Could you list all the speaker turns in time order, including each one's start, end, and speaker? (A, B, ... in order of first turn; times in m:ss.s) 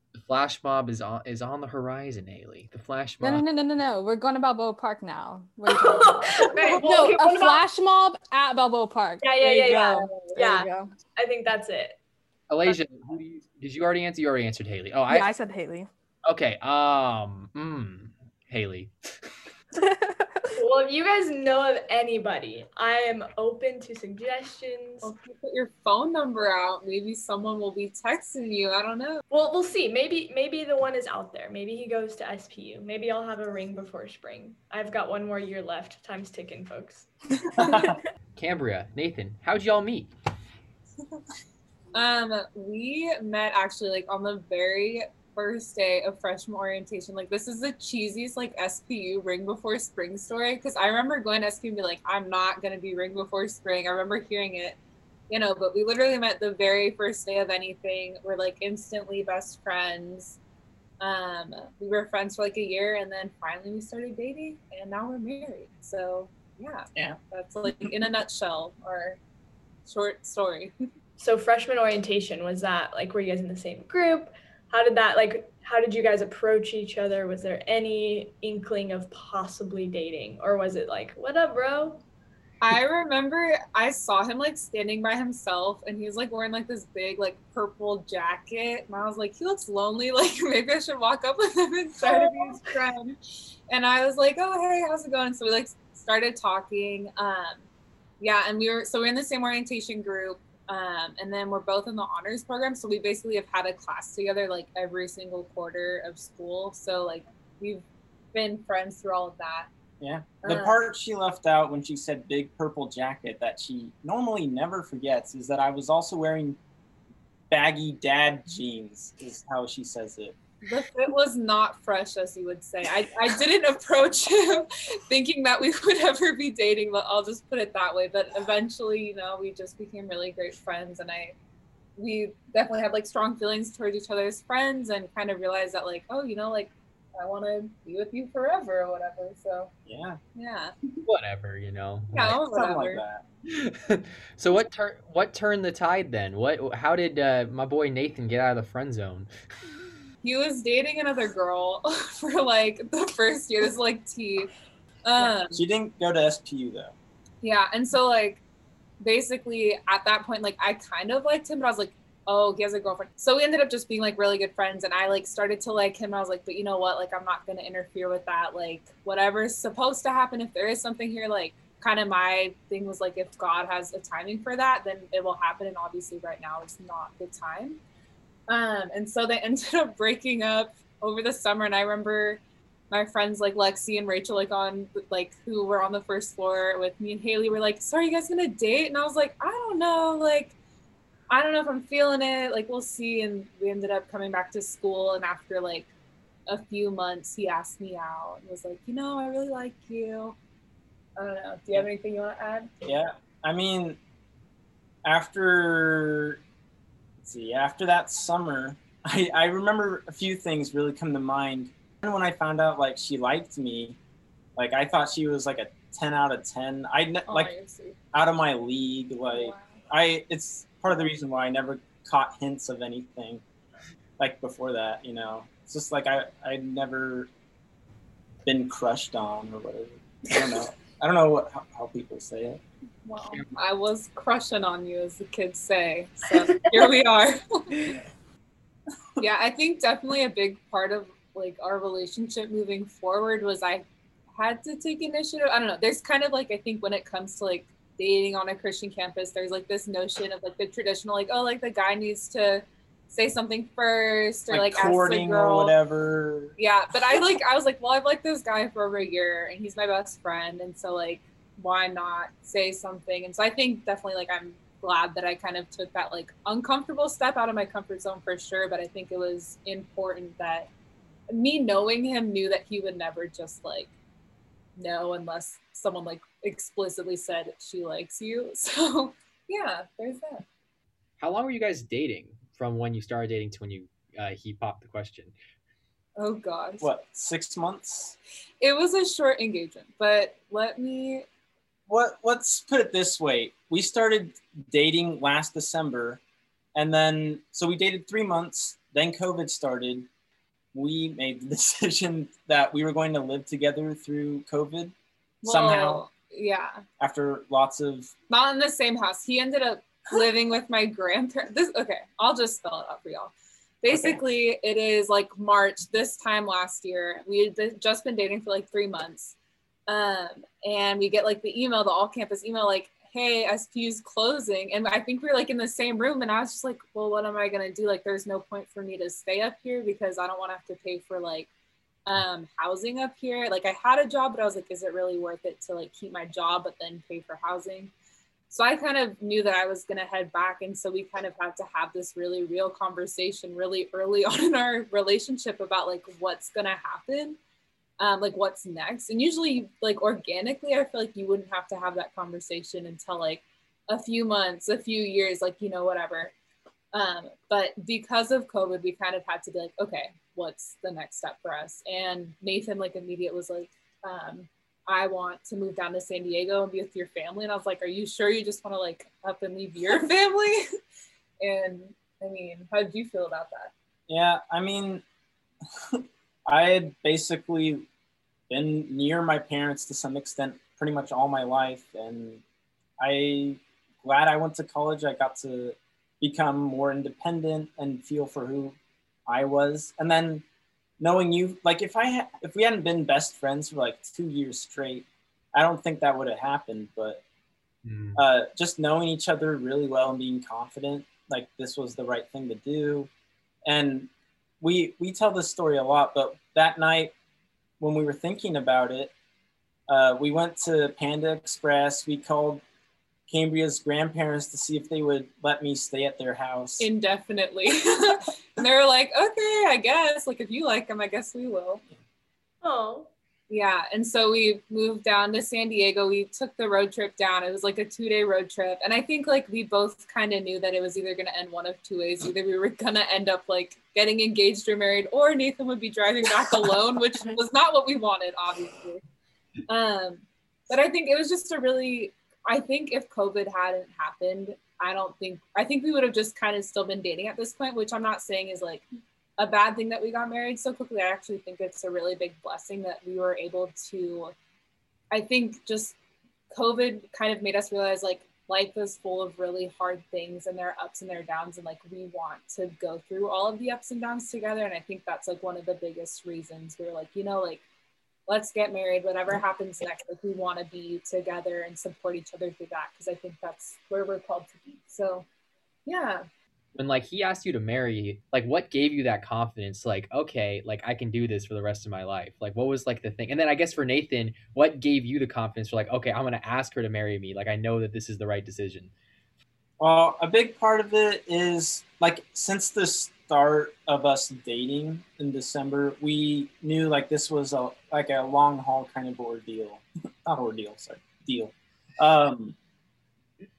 0:00.1-0:03.5 A
0:03.2-0:10.9 B
0:05.7-0:07.6 C
0:09.2-0:12.0 C
0:12.5-0:15.3 A
0:15.1-0:15.9 B
0:16.2-0:18.9 A
0:19.8-0:20.5 B
0:20.6-0:25.1 C
0:25.0-0:29.2 D
0:29.3-0:37.1 C
0:37.6-0:38.0 E
0:38.4-0:40.1 A
0:41.9-0:54.8 D
0:55.3-1:00.4 D
1:01.0-1:09.2 D
1:07.0-1:07.9 E
1:09.9-1:10.7 D
1:11.2-1:22.0 C
1:22.6-1:33.2 D
1:32.0-1:32.6 C
1:33.7-1:37.6 D
1:38.2-1:49.7 D
1:50.0-1:56.6 E
1:50.4-1:50.8 D
1:57.5-2:00.4 E
2:00.7-2:11.4 D
2:12.0-2:19.7 D
2:19.9-2:20.2 E
2:20.4-2:20.8 D
2:21.1-2:22.4 A
2:22.1-2:23.0 D
2:22.3-2:23.2 E
2:23.5-2:29.3 A
2:30.2-2:34.5 D
2:35.0-2:35.6 D
2:35.5-2:37.0 E
2:37.4-2:38.4 D
2:39.0-2:57.8 D
2:58.5-3:02.4 D
3:02.9-3:10.6 D
3:11.3-3:15.9 D
3:16.5-3:20.4 D
3:21.2-3:23.0 D
3:22.8-3:24.0 E
3:25.0-3:26.4 E
3:27.2-3:34.0 E
3:34.6-3:37.5 E
3:37.3-3:38.0 D
3:38.1-3:43.4 E
3:39.3-3:39.8 D
3:44.2-3:47.3 E
3:48.4-3:52.6 E
3:53.0-3:57.4 D
3:59.2-4:03.9 D
4:04.4-4:15.8 D
4:14.5-4:16.6 E
4:16.6-4:30.7 D
4:31.3-4:33.9 D
4:34.8-4:40.4 D
4:41.2-4:45.4 A
4:46.2-4:46.9 D
4:46.8-4:48.2 E
4:48.6-4:51.2 D
4:51.9-4:56.2 E
4:56.8-5:00.1 E
5:00.7-5:04.9 E
5:05.4-5:06.8 D
5:05.4-5:06.0 E
5:07.0-5:08.1 E
5:08.3-5:19.4 D
5:13.9-5:14.2 E
5:19.9-5:31.5 D
5:32.1-5:37.9 D
5:38.5-5:47.4 D
5:48.0-5:56.3 D
5:56.9-6:10.6 D
6:11.4-6:13.7 D
6:14.1-6:15.0 E
6:15.9-6:17.9 E
6:18.5-6:22.4 E
6:23.0-6:30.4 E
6:31.0-6:37.2 E
6:37.8-6:38.2 A
6:38.2-6:43.1 E
6:43.7-6:44.1 E
6:44.6-6:47.2 E
6:47.8-6:49.1 E
6:49.9-6:52.6 E
6:53.3-6:56.9 E
6:56.8-7:01.8 D
7:02.6-7:03.1 C
7:03.5-7:19.0 D
7:19.7-7:28.8 D
7:29.4-7:34.3 D
7:35.1-7:36.0 D
7:36.5-7:47.6 D
7:48.3-7:55.2 D
7:55.9-7:56.2 D
7:56.8-8:08.9 A
8:09.8-8:22.6 E